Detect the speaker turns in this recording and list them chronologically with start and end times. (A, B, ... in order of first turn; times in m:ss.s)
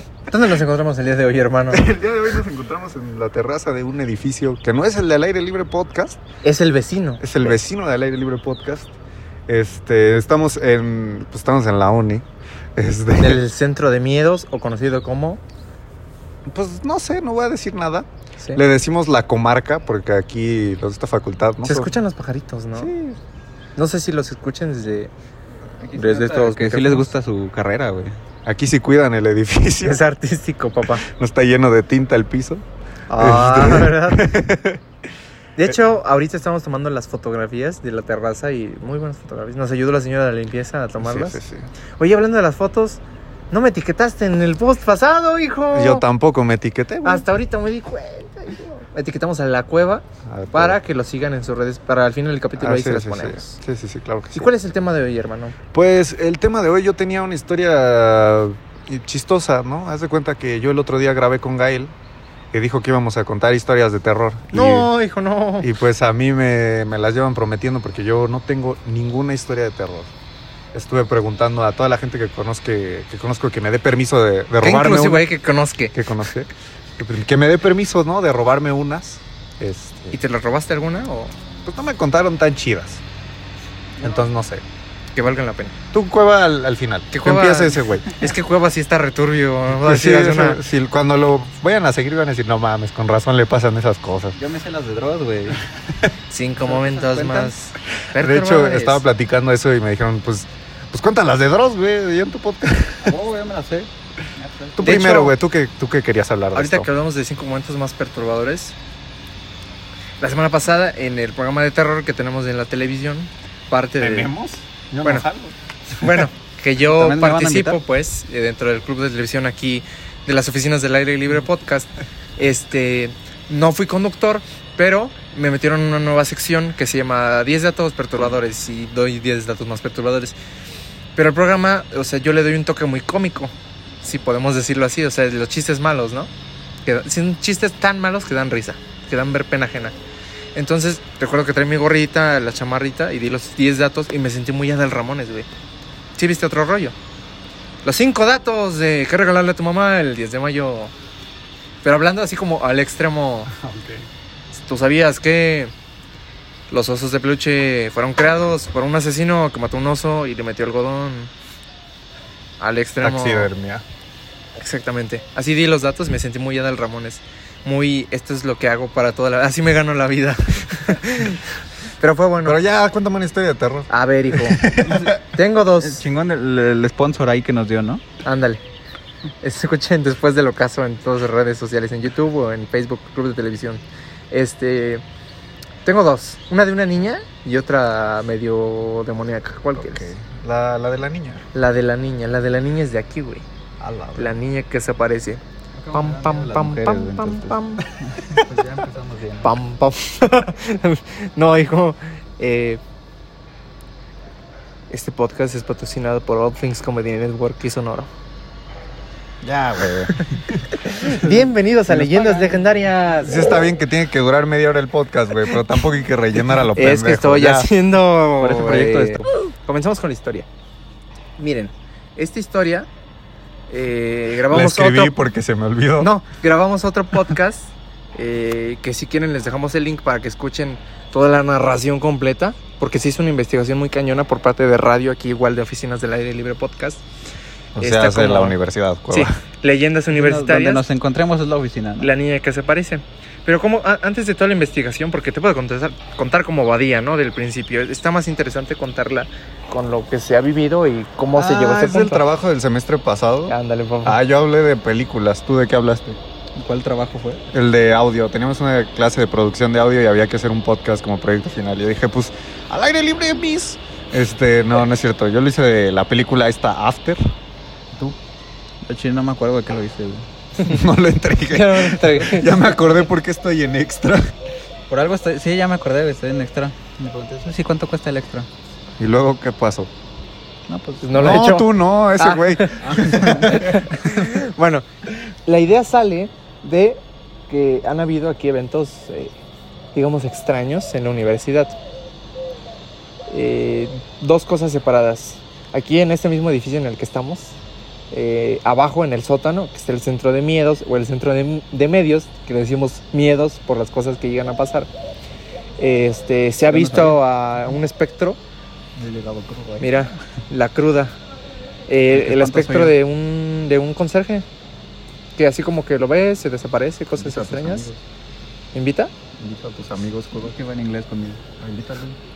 0:00.3-0:01.9 A
0:01.7-0:06.2 B
0:06.4-0:07.5 A
0:07.2-0:08.9 B
0:09.5-0:12.2 B
0:12.8-0:13.4 B
0:13.2-0:15.4 A
0:16.4-0:22.0 B
0:21.6-0:22.9 A
0:22.8-0:23.2 B
0:23.8-0:25.1 A
0:25.8-0:28.1 C
0:25.9-0:27.1 A
0:28.4-0:30.0 B
0:29.8-0:31.0 A
0:31.0-0:32.6 B
0:33.1-0:34.3 A
0:33.2-0:34.8 B
0:35.6-0:41.4 A
0:41.0-0:41.7 B
0:42.0-0:43.0 A
0:43.5-0:46.0 A
0:45.7-0:47.3 B
0:47.0-0:53.6 A
0:50.2-0:50.8 B
0:52.6-0:54.5 B
0:54.3-0:55.6 A
0:55.7-1:01.9 B
1:02.5-1:04.9 B
1:04.5-1:05.7 A
1:05.6-1:10.1 B
1:10.7-1:15.3 B
1:14.6-1:16.0 A
1:15.9-1:20.2 B
1:20.1-1:21.3 A
1:21.6-1:23.0 B
1:24.0-1:24.6 B
1:25.1-1:25.8 A
1:25.9-1:28.1 B
1:27.1-1:30.6 A
1:29.7-1:34.4 B
1:34.3-1:35.7 C
1:36.3-1:39.0 A
1:36.6-1:37.5 C
1:38.2-1:43.2 B
1:43.0-1:44.9 C
1:44.8-1:46.9 B
1:44.8-1:45.3 A
1:46.5-1:48.7 A
1:50.2-1:54.3 A
1:54.0-1:55.6 B
1:55.9-2:10.3 A
1:56.8-1:57.8 C
2:11.1-2:16.3 A
2:16.8-2:19.9 A
2:20.5-2:25.5 A
2:26.2-2:27.0 A
2:27.8-2:30.9 A
2:31.8-2:33.5 A
2:33.5-2:34.0 B
2:34.6-2:35.7 A
2:36.7-2:41.3 A
2:42.6-2:43.5 A
2:43.0-2:43.8 B
2:44.5-2:51.4 A
2:52.0-2:52.6 A
2:52.4-2:55.2 B
2:53.9-2:56.0 A
2:55.8-2:58.0 C
2:58.2-2:58.6 A
2:59.4-3:05.0 A
3:05.8-3:10.1 A
3:09.8-3:10.2 C
3:10.4-3:11.4 B
3:11.5-3:13.4 A
3:13.8-3:14.3 B
3:14.2-3:15.4 A
3:15.7-3:19.5 C
3:15.9-3:18.5 A
3:19.4-3:22.8 A
3:24.9-3:28.1 A
3:29.4-3:30.4 C
3:30.7-3:33.7 A
3:31.0-3:32.6 C
3:33.2-3:37.7 B
3:36.7-3:40.5 A
3:38.4-3:39.3 C
3:41.4-3:42.9 A
3:43.7-3:45.1 A
3:44.5-3:46.1 B
3:46.0-3:57.0 A
3:57.8-3:59.3 B
3:57.8-3:58.6 A
3:59.1-4:00.8 A
4:00.1-4:02.1 C
4:02.0-4:12.2 A
4:11.3-4:16.2 B
4:13.5-4:14.2 A
4:16.6-4:17.4 C
4:17.5-4:27.3 B
4:28.8-4:30.2 C
4:30.6-4:34.3 B
4:31.5-4:32.6 A
4:34.9-4:38.5 C
4:39.0-4:39.9 B
4:40.7-4:41.4 C
4:41.0-4:49.4 A
4:41.2-4:43.8 B
4:42.8-4:43.9 C
4:49.9-4:51.8 A
4:53.3-4:57.6 A
4:58.1-5:04.9 A
5:05.8-5:08.4 A
5:06.7-5:07.2 C
5:09.0-5:09.8 B
5:09.8-5:11.1 A
5:11.9-5:14.4 A
5:12.1-5:12.9 C
5:15.4-5:17.9 A
5:17.2-5:18.0 B
5:18.7-5:19.1 A
5:19.4-5:20.5 B
5:20.4-5:21.5 C
5:21.6-5:22.2 B